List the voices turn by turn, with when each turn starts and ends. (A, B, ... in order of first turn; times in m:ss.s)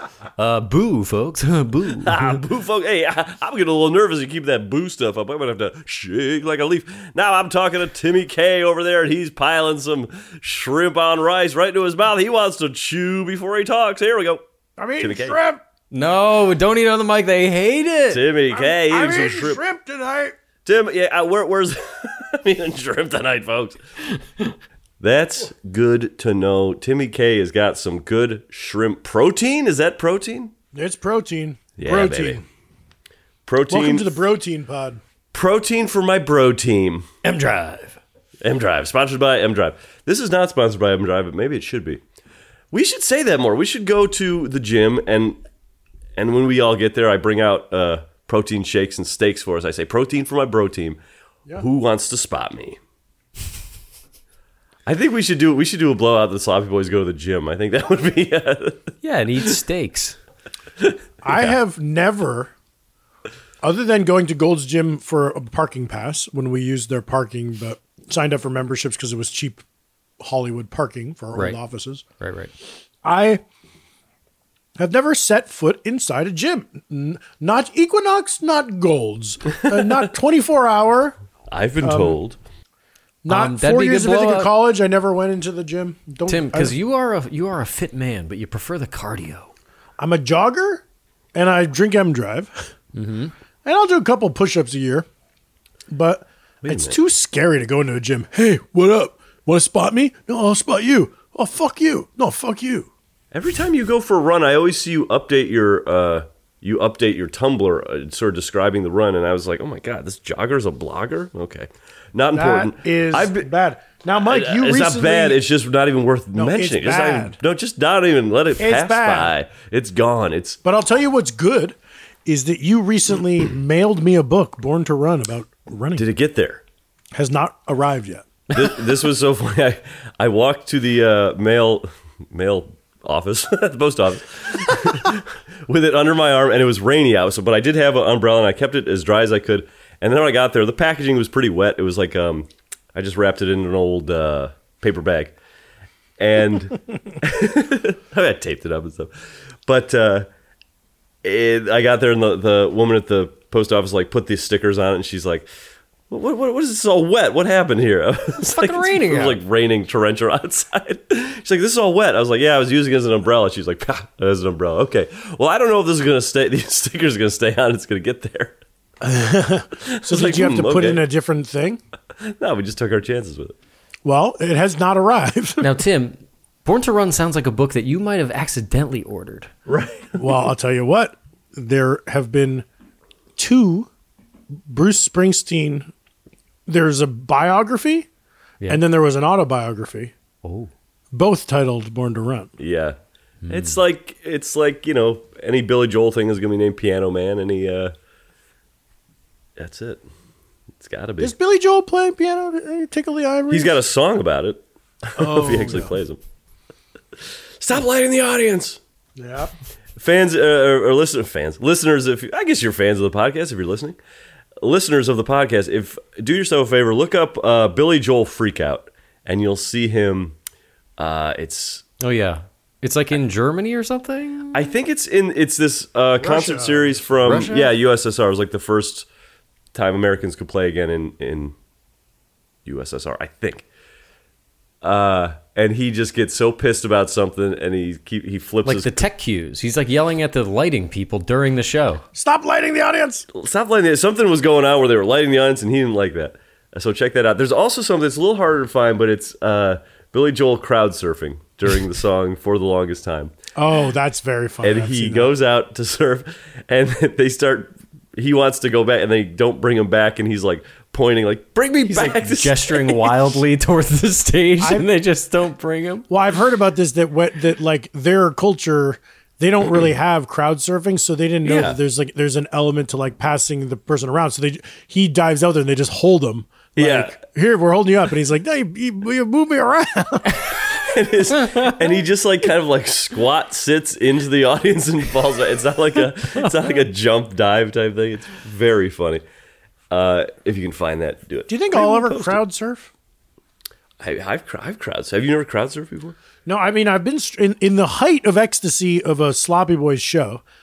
0:00.4-0:02.4 A
0:02.0-0:14.4 B
0:14.8-0:15.6 C
0:15.0-0:15.4 B
0:15.9-0:18.2 A
0:18.1-0:19.6 B
0:18.5-0:20.4 C
0:20.6-0:24.5 B
0:25.0-0:30.5 B
0:30.7-0:32.4 C
0:31.8-0:32.4 B
0:33.5-0:34.1 B
0:33.7-0:35.0 C
0:35.3-0:37.1 B
0:37.2-0:38.0 A
0:38.4-0:42.0 B
0:42.7-0:45.4 B
0:46.2-0:51.0 B
0:51.6-0:52.8 B
0:54.9-0:58.9 B
0:59.0-1:00.2 A
1:01.2-1:02.5 C
1:03.6-1:09.6 C
1:10.2-1:12.0 C
1:12.2-1:12.5 A
1:13.0-1:13.4 C
1:14.8-1:21.2 C
1:21.5-1:22.4 B
1:21.8-1:22.2 C
1:23.2-1:26.8 C
1:23.3-1:24.5 A
1:26.3-1:29.5 A
1:30.0-1:30.8 C
1:31.4-1:32.7 C
1:33.0-1:33.3 A
1:33.6-1:35.1 C
1:35.9-1:42.9 C
1:36.6-1:37.0 B
1:43.3-1:53.5 B
1:52.3-1:55.4 C
1:54.2-2:00.6 B
1:56.3-1:57.4 C
1:58.6-1:59.3 C
2:00.6-2:06.0 C
2:06.0-2:06.6 B
2:07.1-2:08.3 C
2:08.5-2:25.3 B
2:26.2-2:29.1 B
2:29.7-2:30.3 B
2:31.2-2:35.5 B
2:36.1-2:48.6 B
2:38.5-2:39.4 A
2:49.0-2:51.8 C
2:49.8-2:51.0 B
2:52.2-2:53.5 B
2:54.0-2:55.6 C
2:55.6-2:59.5 A
2:59.7-3:02.6 C
3:03.4-3:03.9 C
3:04.7-3:05.9 C
3:06.7-3:08.1 C
3:08.7-3:10.1 C
3:10.4-3:10.7 A
3:11.1-3:12.5 C
3:12.6-3:13.0 B
3:13.4-3:13.8 A
3:13.5-3:17.9 B
3:19.6-3:20.0 B
3:20.8-3:21.3 B
3:21.2-3:23.8 C
3:23.5-3:26.2 B
3:25.2-3:26.0 C
3:27.6-3:28.8 B
3:29.2-3:29.5 C
3:30.0-3:34.0 B
3:34.6-3:40.4 B
3:41.0-3:41.9 B
3:42.0-3:44.6 A
3:44.5-3:49.1 B
3:46.2-3:47.5 C
3:47.2-3:47.7 A
3:49.7-3:51.5 B
3:52.7-3:53.6 B
3:54.8-3:59.0 B
3:58.7-4:02.0 A
4:02.1-4:03.3 C
4:03.3-4:13.3 B
4:13.6-4:15.3 C
4:14.6-4:23.3 B
4:21.9-4:26.1 A
4:24.6-4:24.9 C
4:26.1-4:40.6 C
4:31.4-4:31.8 B
4:36.8-4:37.2 B
4:40.3-4:49.2 B
4:41.4-4:41.7 A
4:49.9-4:52.4 B
4:51.5-4:52.9 C
4:54.0-4:56.2 B
4:56.5-5:00.4 C